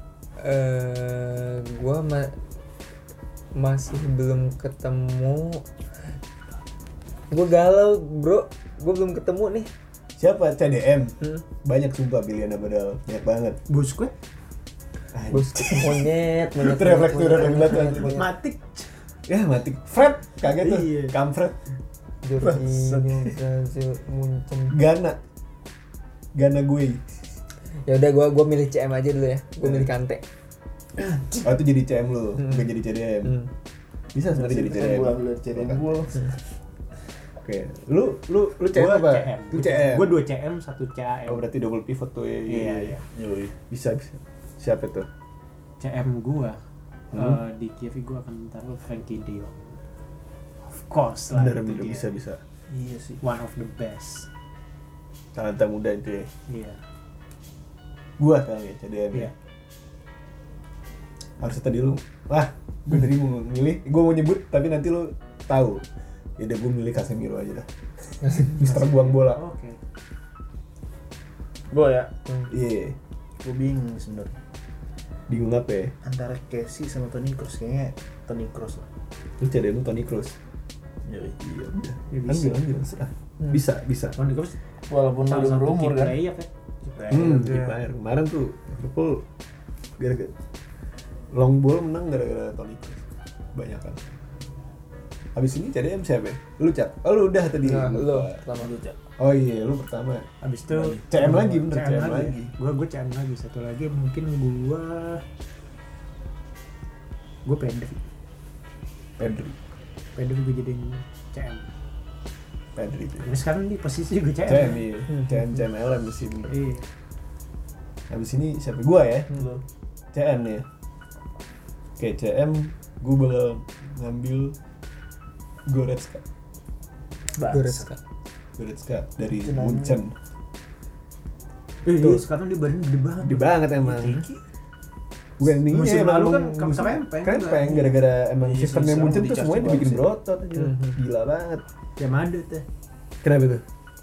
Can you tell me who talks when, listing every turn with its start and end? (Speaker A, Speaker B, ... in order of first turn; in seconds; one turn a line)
Speaker A: 0.4-2.3
Speaker A: 3.5-5.6
Speaker A: 7.3-9.7
Speaker B: 10.2-13.6
Speaker C: 13.7-14.1
Speaker B: 15.1-18.2
Speaker A: 15.3-18.3
Speaker C: 17.8-18.9
Speaker B: 19.3-21.6
Speaker C: 20.5-21.1
Speaker A: 22.2-24.8
Speaker B: 24.7-25.2
Speaker B: 26.3-27.0
Speaker A: 27.8-30.2
Speaker D: 31.0-31.5
Speaker B: 31.4-33.4
Speaker B: 34.1-36.0
Speaker D: 34.3-36.3
Speaker B: 37.4-40.2
Speaker C: 38.7-41.4
Speaker B: 41.3-43.0
Speaker C: 42.5-43.0
Speaker D: 43.1-43.5
Speaker B: 43.7-45.1
Speaker C: 45.8-46.6
Speaker C: 47.1-49.8
Speaker B: 47.1-47.4
Speaker C: 50.6-52.1
Speaker B: 51.3-52.4
Speaker D: 52.7-53.2
Speaker C: 53.2-54.3
Speaker B: 55.3-56.3
Speaker C: 56.5-56.8
Speaker B: 58.2-59.3
Speaker B: 61.4-65.8
Speaker B: 66.4-69.4
Speaker C: 68.6-69.8
Speaker D: 71.7-72.1
Speaker B: 72.5-73.0
Speaker D: 73.4-74.3
Speaker B: 75.3-75.9
Speaker D: 76.0-78.8
Speaker B: 79.4-80.3
Speaker D: 81.0-81.3
Speaker B: 81.4-84.2
Speaker C: 82.1-82.6
Speaker C: 84.2-84.5
Speaker D: 84.9-86.2
Speaker C: 85.2-87.8
Speaker D: 87.0-87.5
Speaker B: 87.1-89.2
Speaker B: 90.0-90.3
Speaker B: 91.3-93.0
Speaker B: 93.5-94.0
Speaker B: 95.3-98.4
Speaker A: 97.6-98.7
Speaker D: 98.6-99.0
Speaker B: 99.2-100.3
Speaker C: 100.4-105.2
Speaker B: 100.9-102.5
Speaker C: 107.4-108.0
Speaker B: 109.2-109.5
Speaker C: 110.1-111.7
Speaker B: 112.7-113.3
Speaker C: 113.2-114.8
Speaker B: 114.4-116.5
Speaker C: 116.5-116.8
Speaker B: 118.1-119.4
Speaker D: 119.3-119.6
Speaker B: 120.1-120.7
Speaker B: 122.0-124.5
Speaker B: 125.7-126.2
Speaker D: 127.3-127.9
Speaker A: 127.4-128.0
Speaker B: 128.6-130.1
Speaker D: 129.4-130.0
Speaker C: 131.8-134.4
Speaker B: 131.9-132.2
Speaker B: 133.2-134.2
Speaker B: 135.4-141.6
Speaker C: 135.6-138.0
Speaker D: 138.4-140.1
Speaker A: 140.6-140.9
Speaker C: 142.0-142.6
Speaker B: 143.2-143.6